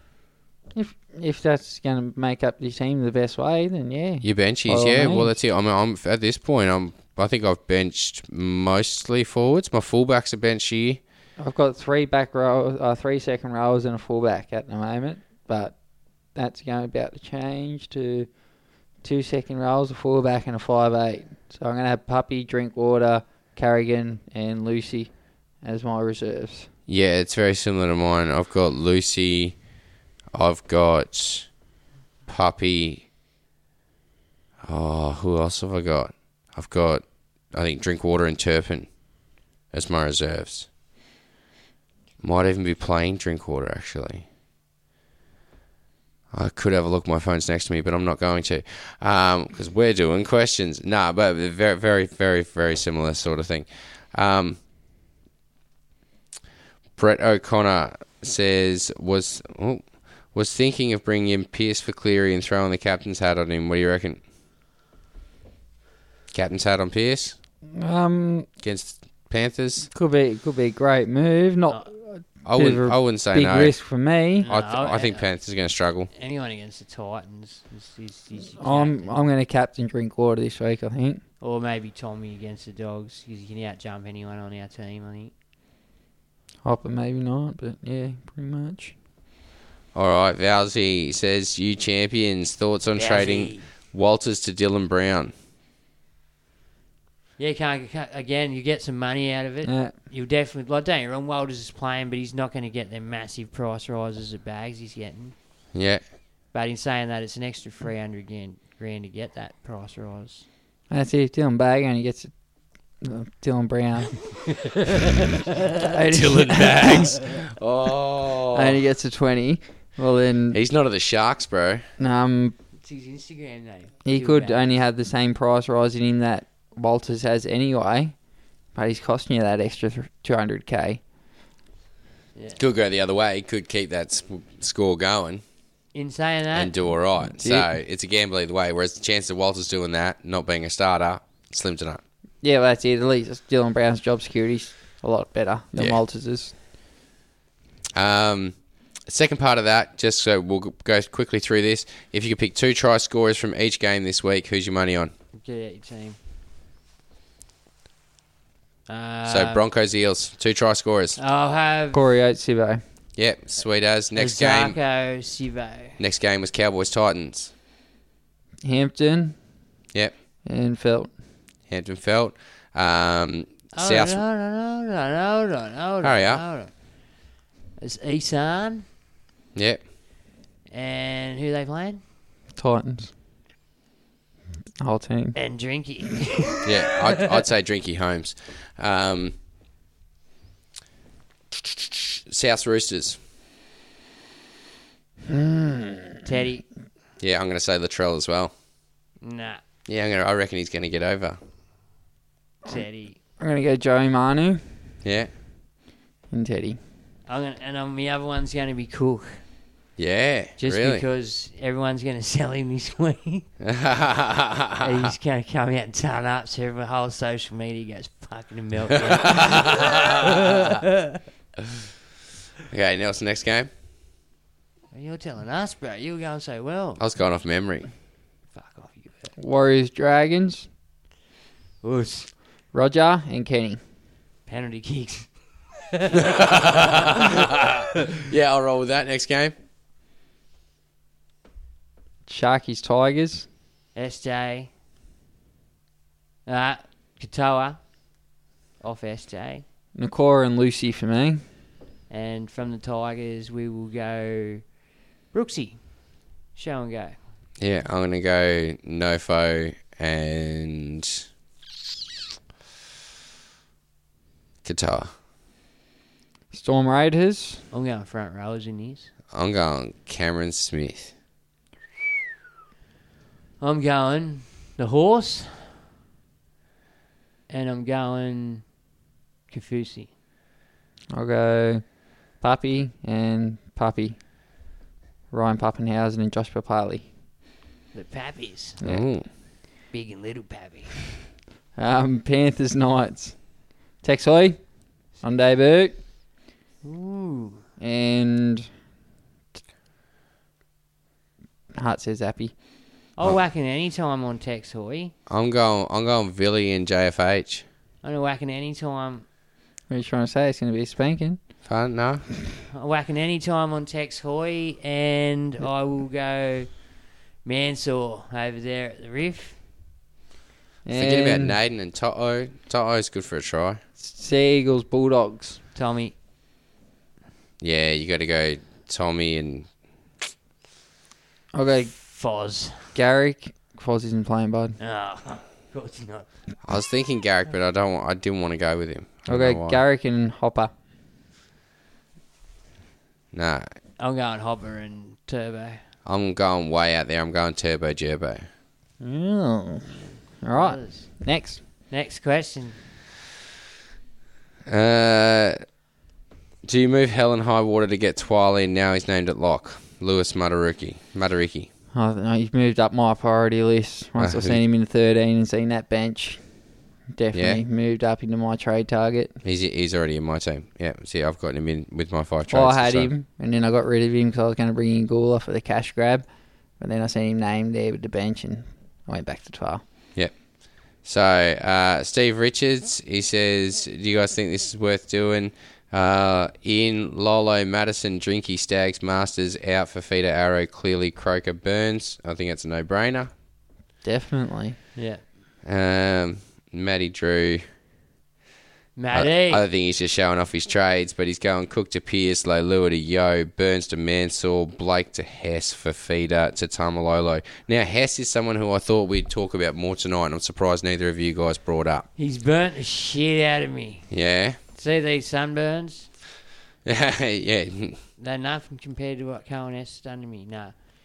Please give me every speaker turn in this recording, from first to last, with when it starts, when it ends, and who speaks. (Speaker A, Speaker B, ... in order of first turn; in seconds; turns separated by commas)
Speaker A: 0.7-5.3, Speaker B: 4.2-11.0, Speaker A: 11.4-15.8, Speaker A: 16.3-18.3, Speaker A: 19.0-26.7, Speaker B: 26.9-29.6, Speaker B: 30.3-31.5, Speaker B: 32.3-33.1, Speaker B: 34.6-38.9, Speaker B: 39.7-40.7, Speaker B: 42.2-44.2, Speaker B: 46.3-54.6, Speaker B: 57.0-64.2, Speaker B: 66.3-67.4, Speaker A: 67.7-68.5, Speaker B: 68.6-69.9, Speaker A: 69.9-74.5, Speaker B: 72.5-73.8, Speaker C: 74.4-75.3, Speaker B: 74.5-76.1, Speaker C: 76.1-79.2, Speaker A: 78.6-81.2, Speaker C: 81.4-85.3, Speaker A: 86.6-88.9, Speaker B: 90.0-95.3, Speaker C: 93.0-93.7, Speaker C: 97.4-105.3, Speaker A: 99.7-99.9, Speaker B: 105.7-106.0, Speaker C: 106.5-110.5, Speaker A: 110.9-112.3, Speaker A: 113.0-114.2, Speaker A: 115.8-117.2, Speaker B: 116.1-118.8, Speaker A: 118.5-120.6, Speaker B: 120.5-121.9, Speaker A: 122.0-122.5, Speaker C: 122.8-124.8, Speaker A: 124.0-128.2, Speaker A: 128.7-131.0, Speaker C: 132.3-132.6, Speaker B: 132.6-135.4, Speaker C: 135.9-136.9, Speaker B: 136.6-142.0, Speaker A: 137.3-137.7, Speaker A: 142.4-146.5, Speaker B: 145.8-146.0, Speaker B: 147.9-155.1, Speaker C: 155.3-156.2, Speaker C: 158.9-159.6, Speaker B: 159.3-161.2, Speaker C: 161.2-162.0, Speaker A: 161.9-162.8, Speaker B: 163.2-164.8, Speaker C: 164.2-166.0, Speaker B: 166.0-167.5, Speaker A: 168.6-169.4, Speaker A: 170.4-171.1, Speaker B: 171.7-174.2, Speaker C: 173.7-176.7, Speaker B: 176.0-176.4, Speaker C: 177.8-178.9, Speaker B: 179.6-179.8, Speaker C: 180.7-182.0, Speaker A: 182.6-183.1, Speaker A: 184.8-185.4, Speaker C: 185.3-187.0, Speaker B: 186.7-189.3, Speaker B: 191.6-193.2, Speaker A: 195.3-196.2, Speaker C: 196.2-196.7, Speaker B: 197.2-198.5, Speaker C: 199.2-199.6, Speaker B: 199.9-201.4, Speaker C: 202.7-203.2, Speaker A: 203.4-204.6, Speaker B: 205.0-205.3, Speaker A: 206.3-206.8, Speaker C: 207.3-209.4, Speaker B: 210.0-211.0, Speaker C: 210.6-213.5, Speaker B: 213.6-215.1, Speaker C: 214.8-221.2, Speaker B: 219.2-220.5, Speaker B: 222.7-223.7, Speaker C: 224.9-227.0, Speaker B: 227.0-227.9, Speaker C: 228.5-229.3, Speaker A: 229.4-230.7, Speaker C: 231.8-232.3, Speaker A: 232.7-233.8, Speaker C: 234.5-235.3, Speaker C: 235.9-237.6, Speaker B: 236.3-237.5, Speaker B: 238.3-239.6, Speaker A: 242.3-243.5, Speaker C: 243.9-244.7, Speaker C: 246.5-247.8, Speaker C: 248.8-249.6, Speaker A: 249.9-251.4, Speaker C: 252.1-254.6, Speaker C: 255.3-255.8, Speaker C: 256.6-257.2, Speaker B: 257.6-261.2, Speaker B: 264.6-265.1, Speaker A: 266.5-267.6, Speaker C: 267.7-269.1, Speaker B: 269.3-271.1, Speaker C: 273.6-275.8, Speaker C: 277.5-278.6, Speaker C: 279.5-280.1, Speaker A: 281.1-281.9, Speaker A: 282.4-284.2, Speaker A: 285.3-287.1, Speaker C: 287.9-288.8, Speaker B: 288.8-289.3, Speaker C: 289.9-291.1, Speaker A: 291.8-296.0, Speaker C: 296.8-297.6, Speaker A: 297.8-298.7, Speaker A: 301.8-302.5, Speaker C: 303.2-305.1, Speaker B: 305.3-307.6, Speaker C: 308.0-309.2, Speaker A: 309.9-311.4, Speaker B: 311.6-312.2, Speaker C: 312.7-316.7, Speaker C: 317.4-319.6, Speaker A: 320.9-321.6, Speaker B: 320.9-323.8, Speaker A: 324.0-325.6, Speaker C: 325.8-326.1, Speaker B: 327.6-329.7, Speaker A: 331.5-331.9, Speaker C: 331.9-332.9, Speaker A: 332.9-334.8, Speaker C: 334.8-336.3, Speaker B: 336.6-339.8, Speaker A: 339.3-340.7, Speaker B: 343.3-343.7, Speaker C: 344.0-345.8, Speaker B: 346.1-348.5, Speaker A: 349.0-351.6, Speaker C: 350.5-351.2, Speaker C: 351.9-352.8, Speaker B: 354.7-355.6, Speaker B: 356.6-361.7, Speaker A: 361.9-366.4, Speaker B: 364.2-364.6, Speaker A: 367.1-369.4, Speaker B: 367.3-367.6, Speaker B: 369.4-373.1, Speaker A: 372.5-376.3, Speaker A: 376.8-379.8, Speaker B: 381.0-393.3, Speaker A: 394.0-394.8, Speaker C: 395.0-395.2, Speaker B: 395.6-397.6, Speaker C: 399.0-399.6, Speaker B: 399.1-412.1, Speaker C: 412.2-414.1, Speaker B: 414.1-414.6, Speaker C: 414.7-416.1, Speaker B: 416.9-418.0, Speaker C: 418.2-420.7